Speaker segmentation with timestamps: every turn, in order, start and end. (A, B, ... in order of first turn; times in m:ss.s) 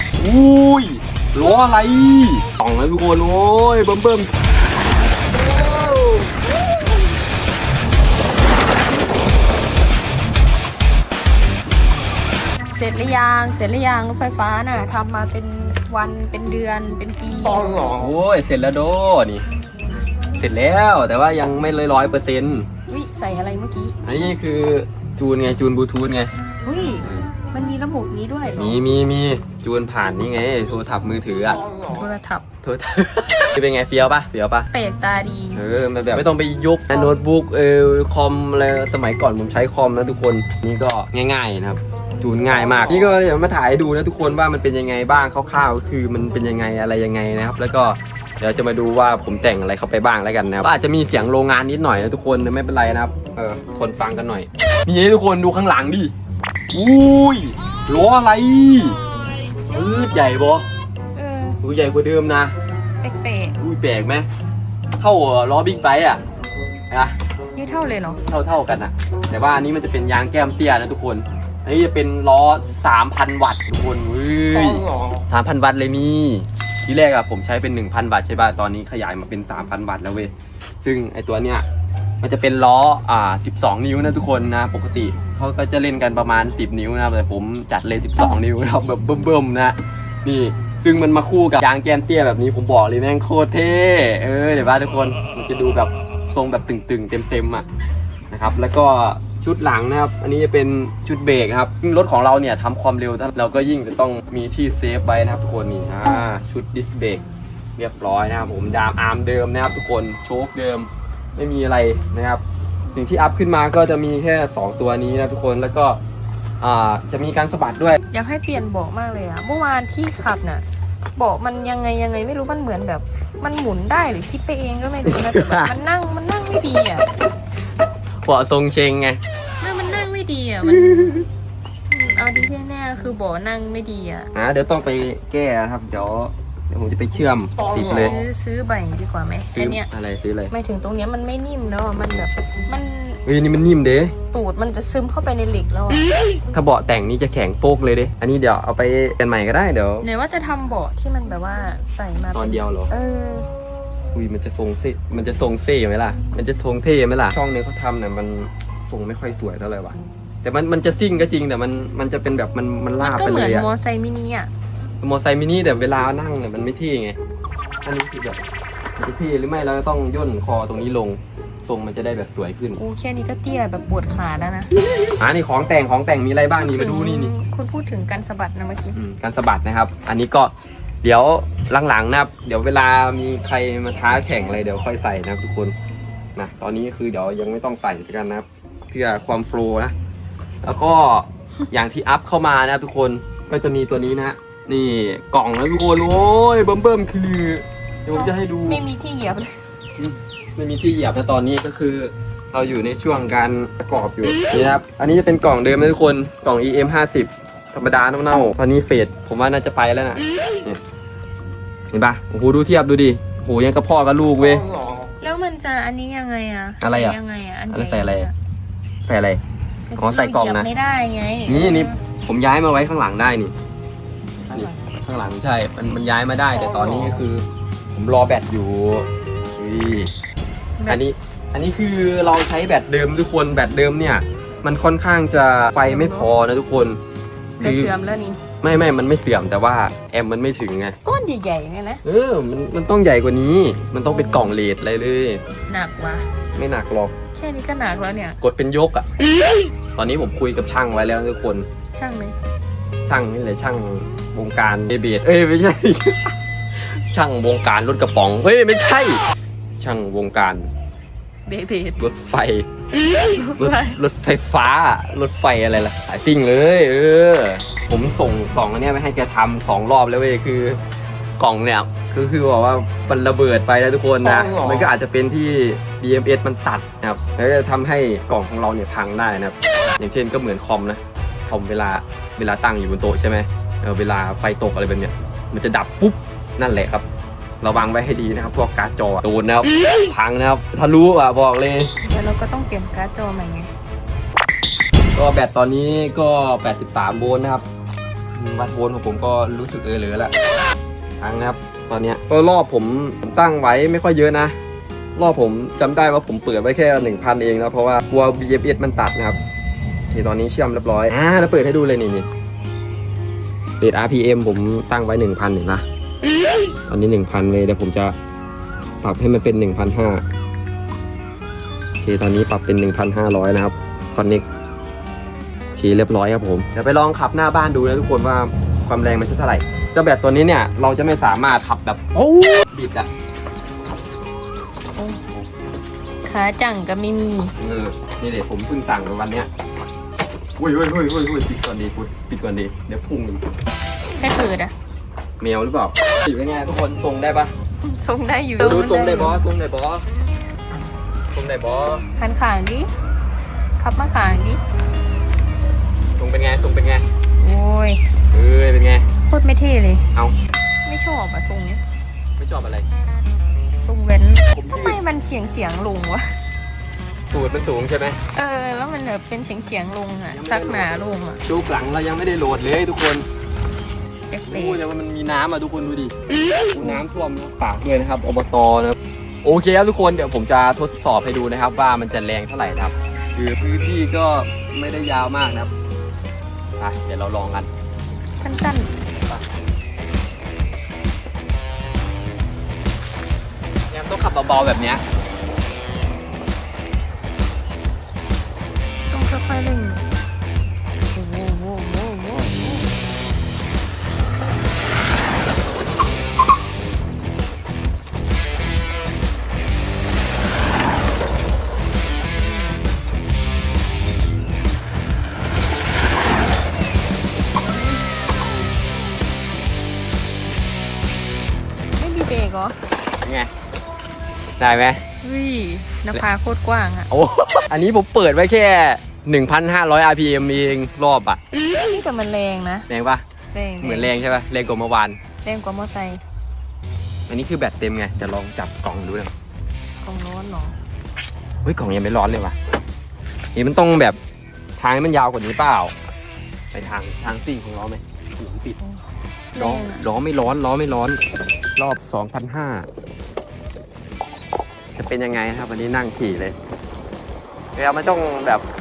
0:00.2-0:04.3 A
0:05.3-0:06.6 A
0:12.7-0:17.9 B
0:17.9-0:19.4 A
0:20.4-0:22.7 A
0:22.9-0:24.0 B
0:24.0-0:26.3 A
0:26.6-0:28.8 B
0:27.0-0:27.3 A
0:28.6-0:31.6 A
0:31.9-0:32.4 B
0:32.6-0:34.7 A
0:34.7-0:35.6 B
0:35.6-0:56.1 A
0:56.7-0:59.0 A
0:59.7-1:00.6 A
1:01.2-1:01.6 B
1:01.6-1:02.5 A
1:03.0-1:03.6 B
1:03.6-1:04.3 A
1:05.0-1:06.2 A
1:06.9-1:07.2 A
1:07.6-1:08.2 B
1:08.3-1:21.6 A
1:22.2-1:37.7 A
1:38.3-1:47.2 A
1:47.8-1:56.0 A
1:56.6-1:58.0 A
1:58.1-2:00.6 B
2:01.2-2:07.1 B
2:05.1-2:05.7 A
2:08.2-2:09.2 A
2:09.6-2:11.2 B
2:10.7-2:11.2 A
2:11.9-2:14.3 B
2:14.4-2:18.2 A
2:17.8-2:19.9 B
2:19.5-2:20.5 A
2:20.5-2:23.2 B
2:23.3-2:24.1 A
2:24.3-2:26.1 B
2:26.5-2:30.1 A
2:30.0-2:33.5 B
2:32.3-2:32.9 A
2:34.1-2:43.7 A
2:43.0-2:44.5 B
2:45.0-2:47.2 A
2:47.8-2:48.4 A
2:49.0-2:52.8 A
2:52.8-2:54.7 B
2:55.0-2:57.3 A
2:56.6-2:59.0 B
2:58.9-3:00.5 A
3:01.0-3:05.7 A
3:06.4-3:09.9 A
3:10.6-3:18.8 A
3:18.1-3:19.6 B
3:20.0-3:30.8 A
3:31.9-3:34.7 A
3:35.2-3:38.3 B
3:36.8-3:37.2 A
3:37.7-3:38.3 A
3:39.1-3:39.4 A
3:39.9-3:42.0 B
3:40.0-3:40.7 A
3:41.5-3:43.5 A
3:44.5-3:44.8 B
3:44.5-3:50.1 A
3:46.6-3:47.2 B
3:50.8-3:51.0 B
3:50.9-3:57.0 A
3:55.8-3:56.3 B
3:57.6-3:58.4 B
3:57.6-3:57.9 A
3:58.6-4:01.0 A
4:01.0-4:02.0 B
4:02.0-4:05.4 A
4:04.1-4:04.5 B
4:05.7-4:06.3 B
4:06.6-4:07.1 A
4:07.4-4:08.4 B
4:08.4-4:09.1 A
4:10.0-4:11.7 A
4:12.0-4:12.4 B
4:13.1-4:19.2 A
4:19.8-4:20.7 A
4:21.5-4:22.0 B
4:22.0-4:22.7 A
4:23.2-4:24.0 B
4:23.6-4:30.8 A
4:31.4-4:47.1 A
4:47.6-4:51.9 A
4:52.0-4:53.7 B
4:55.2-4:57.6 A
4:58.4-5:00.3 A
5:01.2-5:04.6 A
5:05.2-5:09.4 A
5:10.1-5:12.3 A
5:13.8-5:15.8 A
5:16.9-5:18.2 A
5:19.0-5:20.2 A
5:22.0-5:24.4 A
5:25.8-5:33.1 A
5:35.0-5:35.2 B
5:36.2-5:37.5 B
5:37.6-5:39.5 A
5:40.6-5:43.4 A
5:44.2-5:44.7 B
5:45.4-5:47.5 A
5:47.8-5:49.4 B
5:48.6-5:50.1 A
5:51.3-5:52.0 A
5:52.2-5:52.9 B
5:53.8-5:54.6 B
5:56.2-5:57.0 A
5:57.4-5:58.0 B
5:58.3-5:59.1 A
5:59.2-6:00.0 B
6:00.8-6:01.8 B
6:02.4-6:02.9 A
6:03.8-6:06.4 B
6:04.5-6:05.0 A
6:07.3-6:08.2 A
6:08.3-6:11.4 B
6:10.3-6:10.9 A
6:11.4-6:13.2 A
6:14.3-6:14.8 B
6:14.5-6:16.1 A
6:16.7-6:25.7 A
6:26.8-6:27.7 A
6:28.4-6:28.9 B
6:33.9-6:35.0 A
6:39.1-6:40.0 B
6:41.0-6:42.9 B
6:52.3-6:52.9 B
6:57.7-6:58.0 B
7:01.9-7:02.8 B
7:03.2-7:03.5 A
7:04.6-7:05.0 A
7:05.2-7:07.1 B
7:07.1-7:11.4 A
7:11.9-7:12.9 B
7:12.9-7:13.2 A
7:13.5-7:14.1 B
7:13.8-7:15.2 A
7:15.4-7:16.2 B
7:17.3-7:19.3 A
7:20.0-7:20.8 B
7:21.6-7:22.6 A
7:23.6-7:24.2 A
7:24.8-7:25.9 A
7:26.7-7:28.8 A
7:29.5-7:30.0 B
7:29.6-7:31.2 A
7:31.8-7:32.9 A
7:35.0-7:36.6 A
7:37.8-7:38.6 A